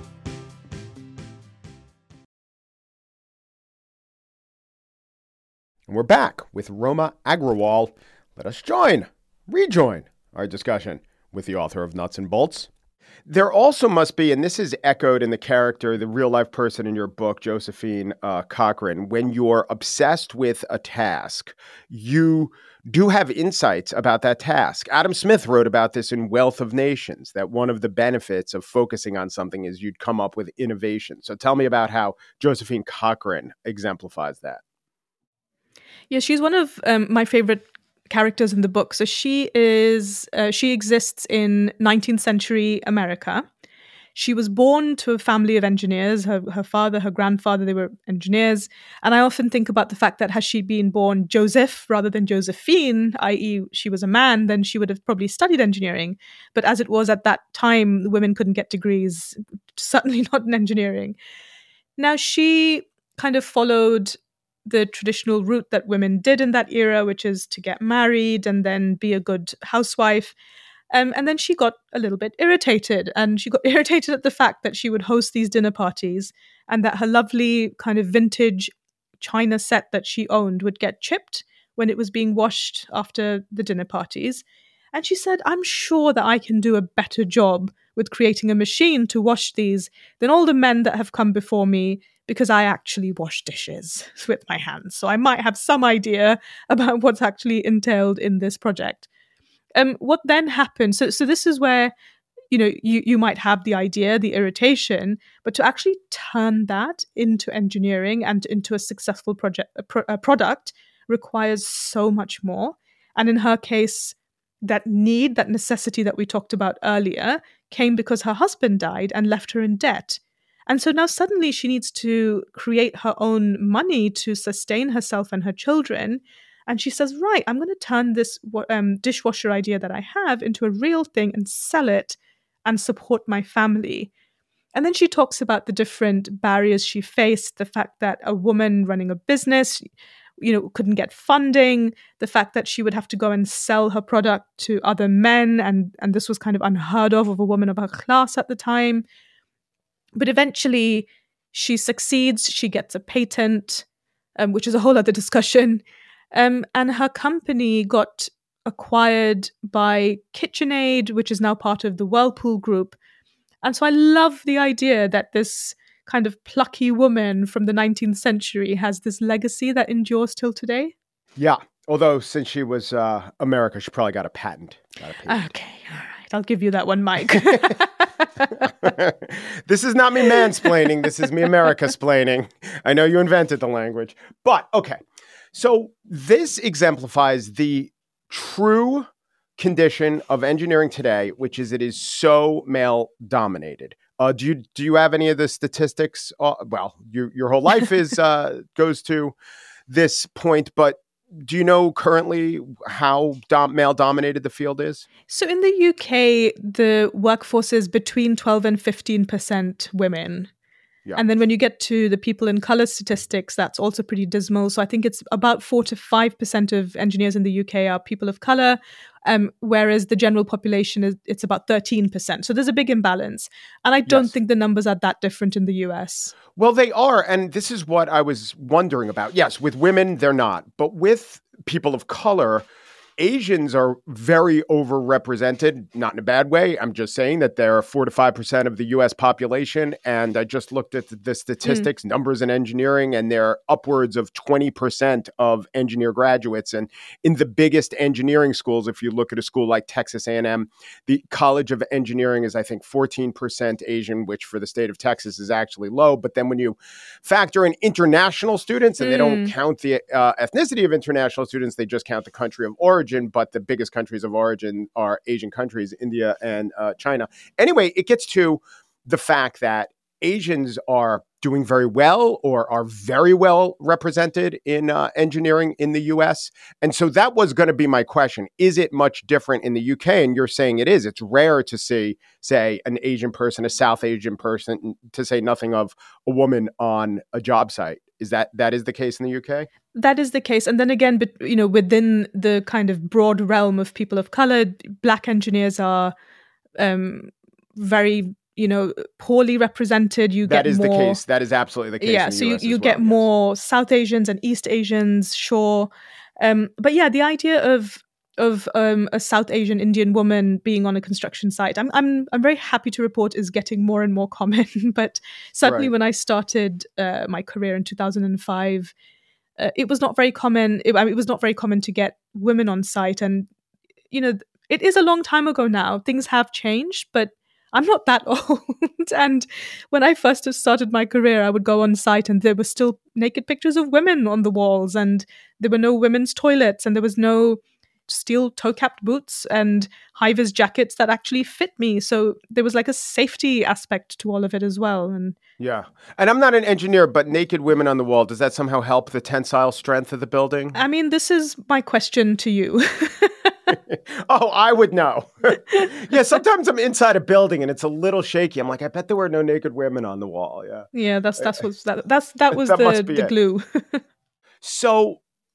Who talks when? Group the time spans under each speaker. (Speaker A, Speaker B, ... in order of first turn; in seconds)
Speaker A: 5.9-12.7, 13.2-34.6, 171.4-175.5, 177.3-177.7, 178.8-185.0, 185.5-199.3, 199.9-205.1, 226.6-232.7, 233.2-289.7, 300.4-303.2, 315.6-315.9, 345.6-350.8, 353.9-360.9, 362.5-363.3, 364.6-365.2
Speaker B: 36.1-43.5, 44.1-61.1, 62.0-70.3, 70.9-99.1, 99.7-101.9, 102.5-134.1, 134.7-139.8, 140.4-149.0, 150.2-153.8, 154.4-155.8, 156.3-162.9, 163.6-170.9, 175.3-177.9, 205.3-210.5, 211.2-226.3, 259.0-259.5, 289.9-296.1, 296.8-301.2, 302.0-318.9, 319.6-323.5, 324.1-345.4, 350.7-353.7, 360.9-364.0